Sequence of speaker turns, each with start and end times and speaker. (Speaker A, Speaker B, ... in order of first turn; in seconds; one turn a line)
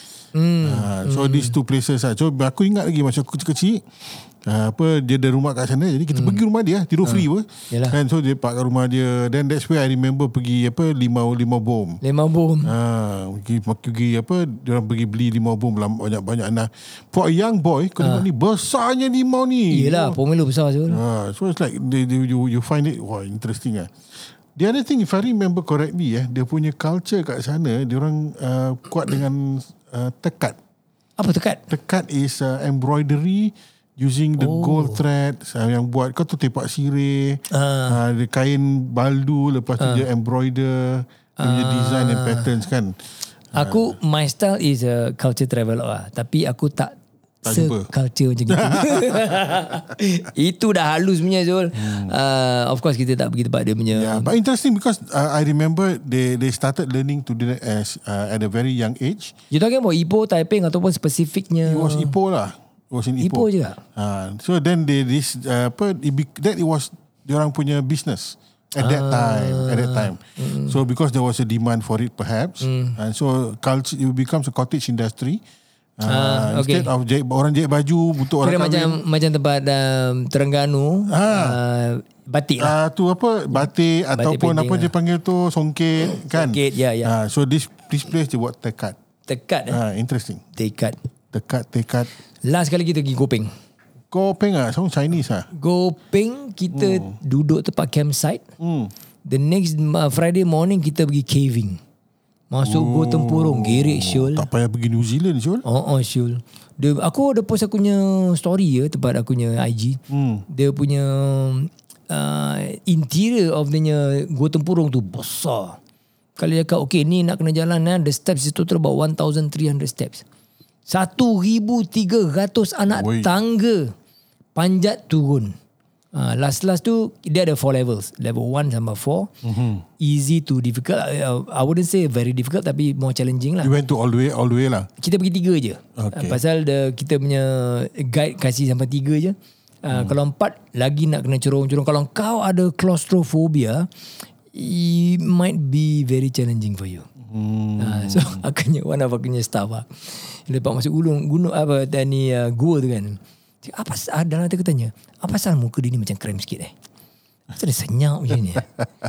Speaker A: 0.3-1.6
Speaker B: 0.6-12.0
Speaker A: 6.1-6.4
Speaker A: 7.0-8.0
Speaker A: 12.0-12.7
Speaker B: 12.6-20.2
Speaker A: 18.0-18.2
Speaker A: 19.7-21.0
Speaker B: 20.9-23.9
Speaker B: 24.5-30.6
Speaker A: 31.2-31.6
Speaker B: 31.7-43.0
Speaker A: 34.4-35.0
Speaker A: 37.5-38.0
Speaker A: 39.8-40.0
Speaker A: 41.4-42.5
Speaker B: 43.5-44.0
Speaker A: 43.5-54.3
Speaker B: 47.4-47.9
Speaker B: 48.5-49.7
Speaker B: 51.7-52.1
Speaker B: 53.9-59.3
Speaker A: 59.5-62.1
Speaker B: 61.6-75.4
Speaker A: 63.2-63.8
Speaker A: 68.8-70.8
Speaker A: 72.6-73.0
Speaker B: 76.0-79.0
Speaker A: 76.1-76.9
Speaker A: 78.4-82.8
Speaker B: 81.1-81.6
Speaker B: 82.6-89.0
Speaker A: 83.6-84.9
Speaker A: 86.0-87.1
Speaker A: 89.3-89.8
Speaker B: 89.7-90.4
Speaker A: 90.5-91.0
Speaker B: 91.3-92.1
Speaker A: 92.4-93.5
Speaker B: 94.1-95.5
Speaker A: 95.5-98.4
Speaker B: 96.7-97.1
Speaker B: 98.6-98.9
Speaker A: 99.2-101.8
Speaker A: 102.5-104.5
Speaker B: 102.6-105.6
Speaker A: 105.6-115.8
Speaker B: 110.1-110.4
Speaker A: 116.4-120.2
Speaker A: 120.9-123.9
Speaker B: 122.9-123.3
Speaker A: 124.5-125.5
Speaker A: 126.1-129.3
Speaker B: 129.4-129.8
Speaker A: 130.0-133.7
Speaker B: 133.6-134.9
Speaker A: 135.0-143.9
Speaker B: 136.0-136.4
Speaker A: 144.5-147.1
Speaker B: 147.2-148.4
Speaker A: 147.8-156.7
Speaker A: 157.5-158.7